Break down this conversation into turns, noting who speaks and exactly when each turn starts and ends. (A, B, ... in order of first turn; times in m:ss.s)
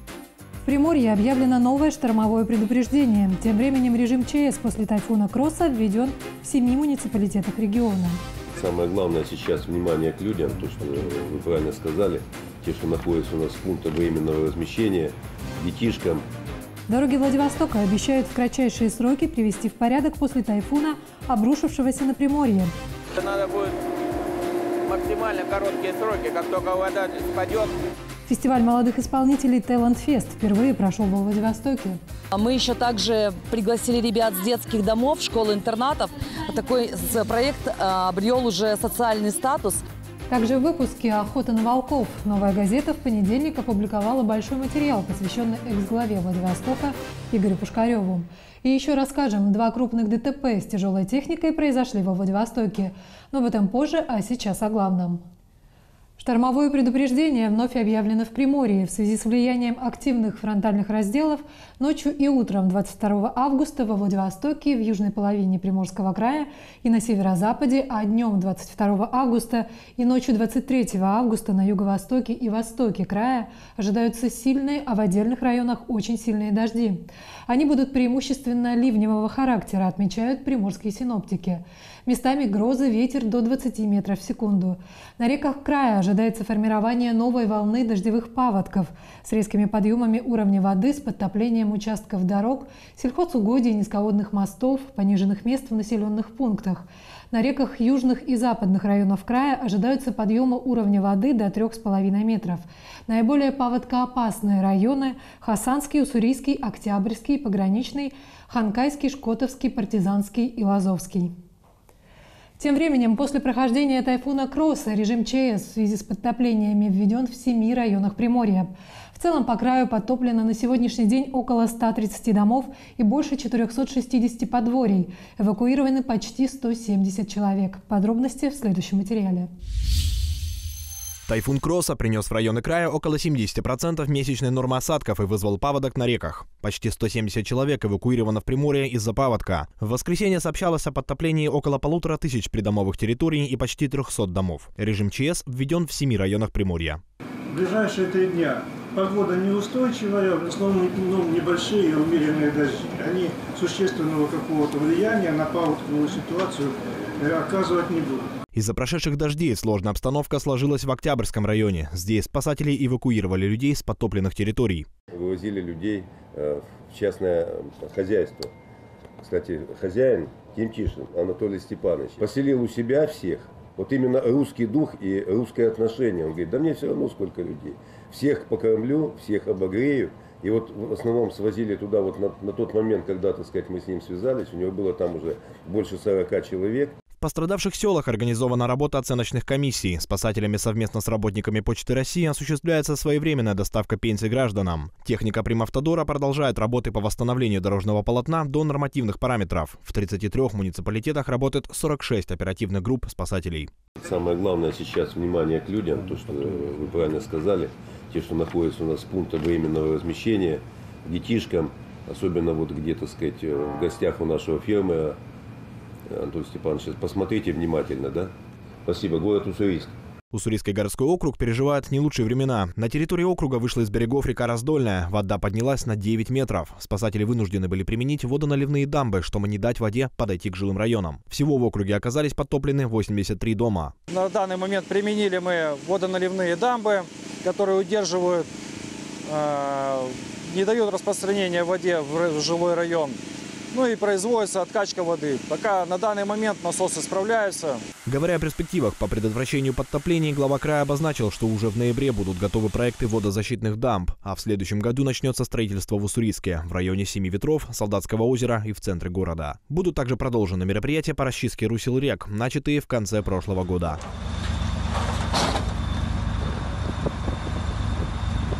0:00.6-0:08.2 A
0:08.5-0:16.2 B
0:16.9-0:22.7 A
0:23.1-0:23.7 C
0:24.8-0:27.7 C
0:28.3-0:32.0 A
0:32.3-0:39.8 D
0:40.3-0:55.2 A
0:56.2-1:51.3 A
1:52.6-2:09.5 A
2:11.3-2:27.0 E
2:27.5-2:38.2 F
2:38.5-2:44.9 E
2:45.1-2:48.5 B
2:49.2-3:06.9 B
3:07.2-3:23.7 E
3:24.0-3:35.2 B
3:36.1-3:38.3 B
3:38.8-3:39.9 B
3:40.3-3:53.9 E
3:54.1-3:58.5 G
3:59.2-4:03.2 G
4:03.7-4:07.8 G
4:08.0-4:24.0 E